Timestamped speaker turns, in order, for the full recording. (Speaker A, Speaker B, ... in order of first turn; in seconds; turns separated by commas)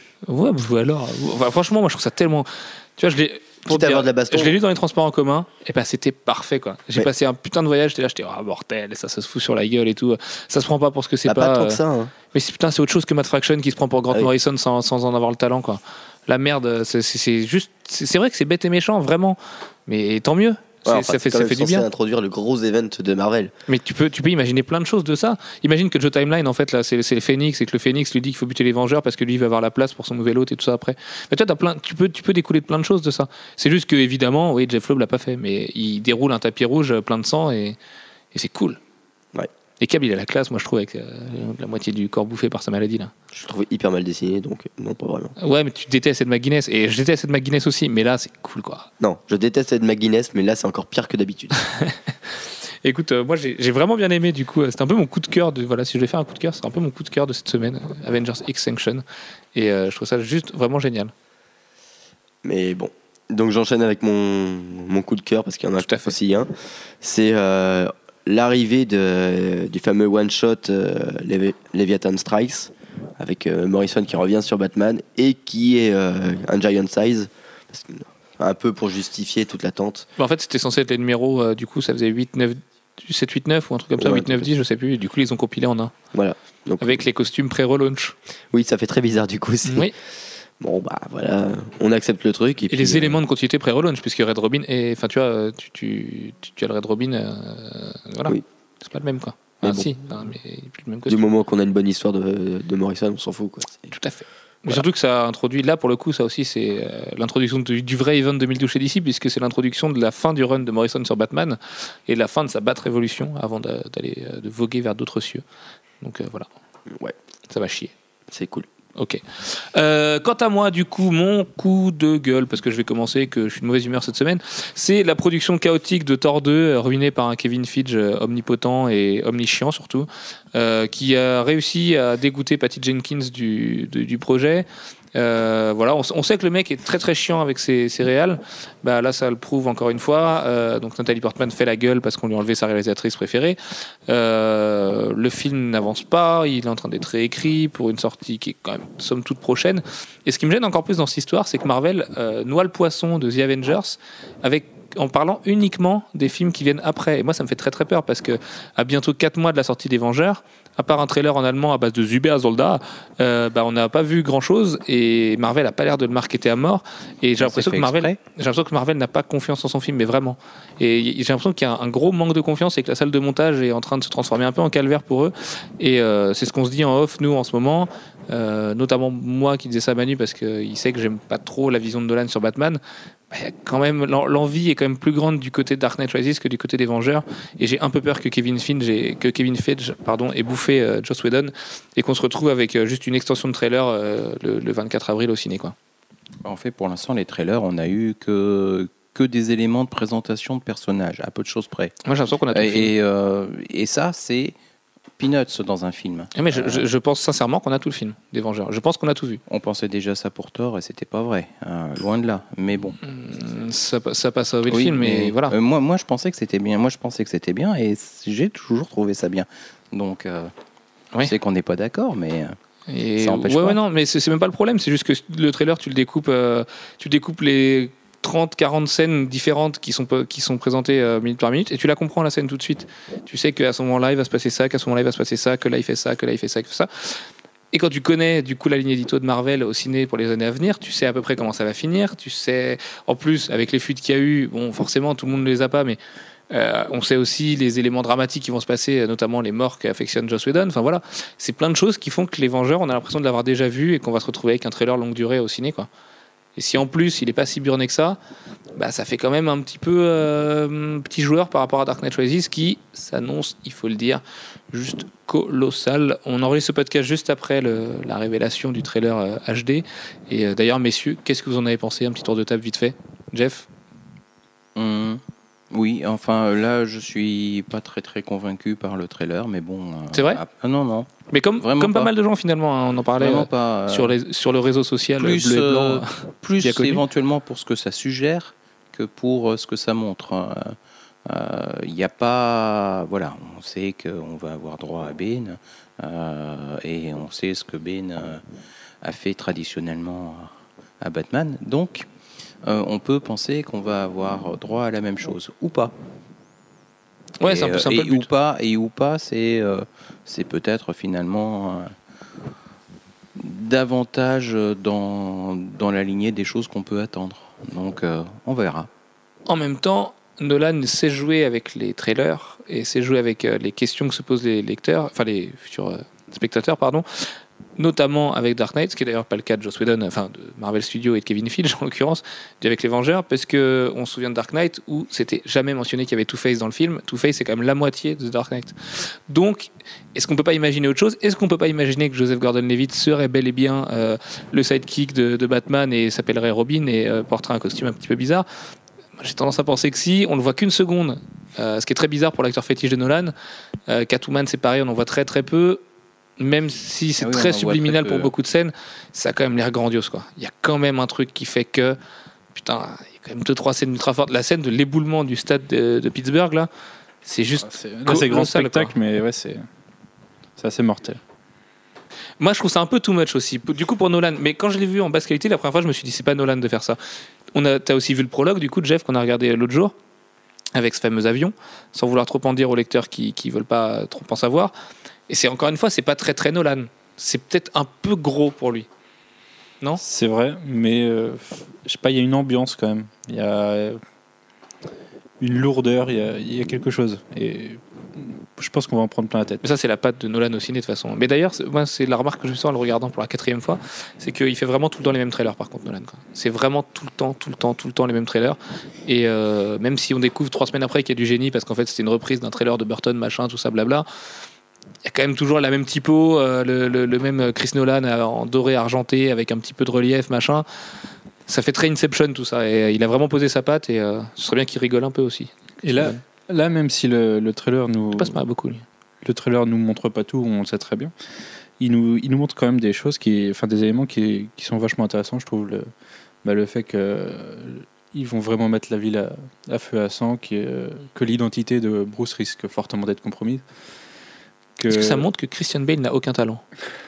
Speaker A: 0.2-11.8, Speaker B: 3.7-4.5, Speaker B: 11.2-12.1, Speaker A: 12.3-21.9, Speaker B: 20.9-23.5, Speaker A: 23.7-37.8, Speaker A: 38.3-38.8, Speaker A: 39.8-43.1, Speaker B: 43.3-45.3, Speaker A: 45.4-48.9, Speaker B: 49.0-51.7, Speaker A: 52.8-59.0, Speaker A: 59.5-61.1, Speaker B: 62.4-66.5, Speaker A: 65.8-66.1, Speaker B: 67.0-80.1, Speaker A: 80.2-85.9, Speaker B: 84.0-84.6, Speaker B: 86.1-87.0, Speaker A: 86.8-88.1, Speaker B: 88.5-89.9, Speaker A: 89.7-89.9, Speaker B: 90.6-93.2, Speaker A: 92.7-101.2, Speaker B: 99.6-99.9, Speaker B: 101.1-103.9, Speaker A: 103.9-115.4, Speaker A: 116.0-116.5, Speaker A: 117.5-117.9, Speaker B: 118.3-118.7, Speaker A: 119.0-182.8, Speaker C: 167.4-168.2, Speaker A: 183.3-195.7, Speaker C: 196.4-201.9, Speaker A: 202.1-202.9, Speaker C: 202.5-204.5, Speaker C: 205.2-206.8, Speaker A: 206.3-209.4, Speaker C: 209.5-213.0, Speaker A: 213.0-215.5, Speaker C: 214.7-220.5, Speaker C: 221.2-222.6, Speaker A: 222.9-246.0, Speaker C: 223.2-223.8, Speaker A: 246.5-255.9, Speaker A: 256.6-258.2, Speaker A: 258.7-273.7, Speaker C: 274.7-282.1, Speaker A: 280.1-280.4, Speaker A: 281.3-287.0, Speaker C: 283.2-284.1, Speaker C: 285.2-298.4, Speaker C: 299.0-300.5, Speaker C: 301.0-302.1, Speaker C: 302.6-305.9, Speaker A: 307.4-308.3, Speaker C: 307.4-311.9, Speaker C: 313.4-318.9, Speaker A: 319.5-348.4, Speaker A: 349.2-353.3, Speaker A: 353.9-355.8, Speaker A: 356.4-362.0, Speaker C: 357.2-358.3, Speaker A: 362.5-366.7, Speaker A: 367.2-368.9, Speaker D: 367.6-369.7, Speaker D: 370.6-371.2, Speaker A: 372.4-377.0, Speaker A: 377.5-379.9, Speaker A: 380.7-384.7, Speaker A: 385.3-388.9, Speaker D: 390.0-394.0, Speaker D: 395.4-399.6, Speaker A: 399.6-414.1, Speaker A: 415.0-420.6, Speaker A: 421.5-426.2, Speaker D: 425.8-428.4, Speaker A: 428.1-428.8, Speaker D: 429.2-431.1, Speaker D: 431.8-435.9, Speaker D: 436.4-443.6, Speaker D: 444.8-445.2, Speaker A: 444.9-446.6